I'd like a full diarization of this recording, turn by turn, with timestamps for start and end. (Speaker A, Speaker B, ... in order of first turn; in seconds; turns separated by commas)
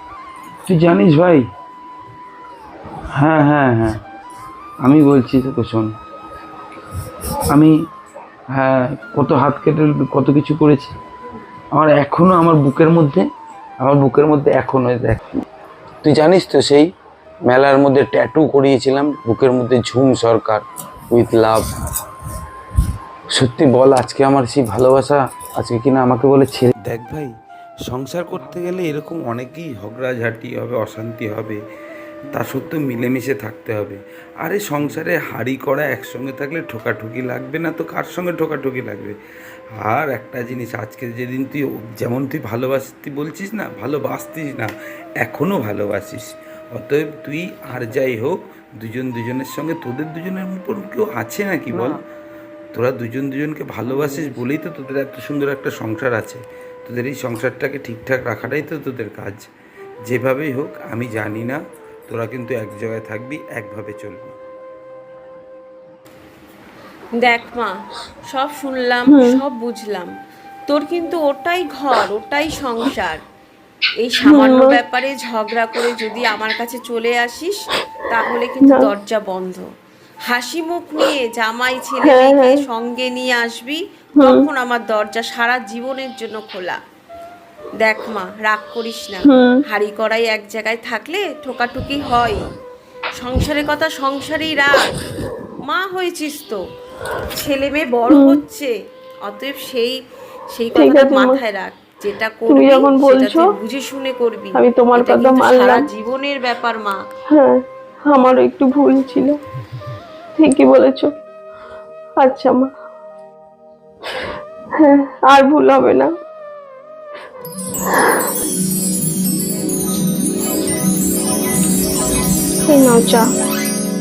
Speaker A: 0.7-1.4, Speaker A: 3.1-4.0, Speaker A: 4.8-5.9, Speaker A: 8.5-10.9, Speaker A: 11.7-13.2, Speaker A: 13.8-15.3, Speaker A: 16.0-16.9, Speaker A: 17.5-21.7, Speaker A: 23.3-27.3, Speaker A: 27.9-31.6, Speaker A: 32.3-39.1, Speaker A: 39.8-44.7, Speaker A: 45.2-52.0, Speaker A: 52.7-59.4, Speaker A: 60.1-64.3, Speaker B: 67.2-67.8, Speaker B: 68.3-70.1, Speaker C: 69.1-69.4, Speaker B: 70.7-73.2, Speaker B: 74.0-79.6, Speaker C: 74.2-74.8, Speaker B: 80.2-86.8, Speaker C: 82.0-82.6, Speaker C: 84.2-84.5, Speaker B: 87.8-92.4, Speaker C: 89.2-89.6, Speaker B: 93.2-94.9, Speaker B: 95.7-96.6, Speaker B: 97.3-98.7, Speaker C: 98.1-98.4, Speaker B: 99.2-100.0, Speaker B: 100.5-107.0, Speaker C: 100.7-101.4, Speaker C: 102.5-103.4, Speaker C: 104.5-105.9, Speaker C: 107.3-109.4, Speaker C: 110.4-111.1, Speaker C: 112.2-112.7, Speaker C: 114.8-116.1, Speaker C: 122.7-123.3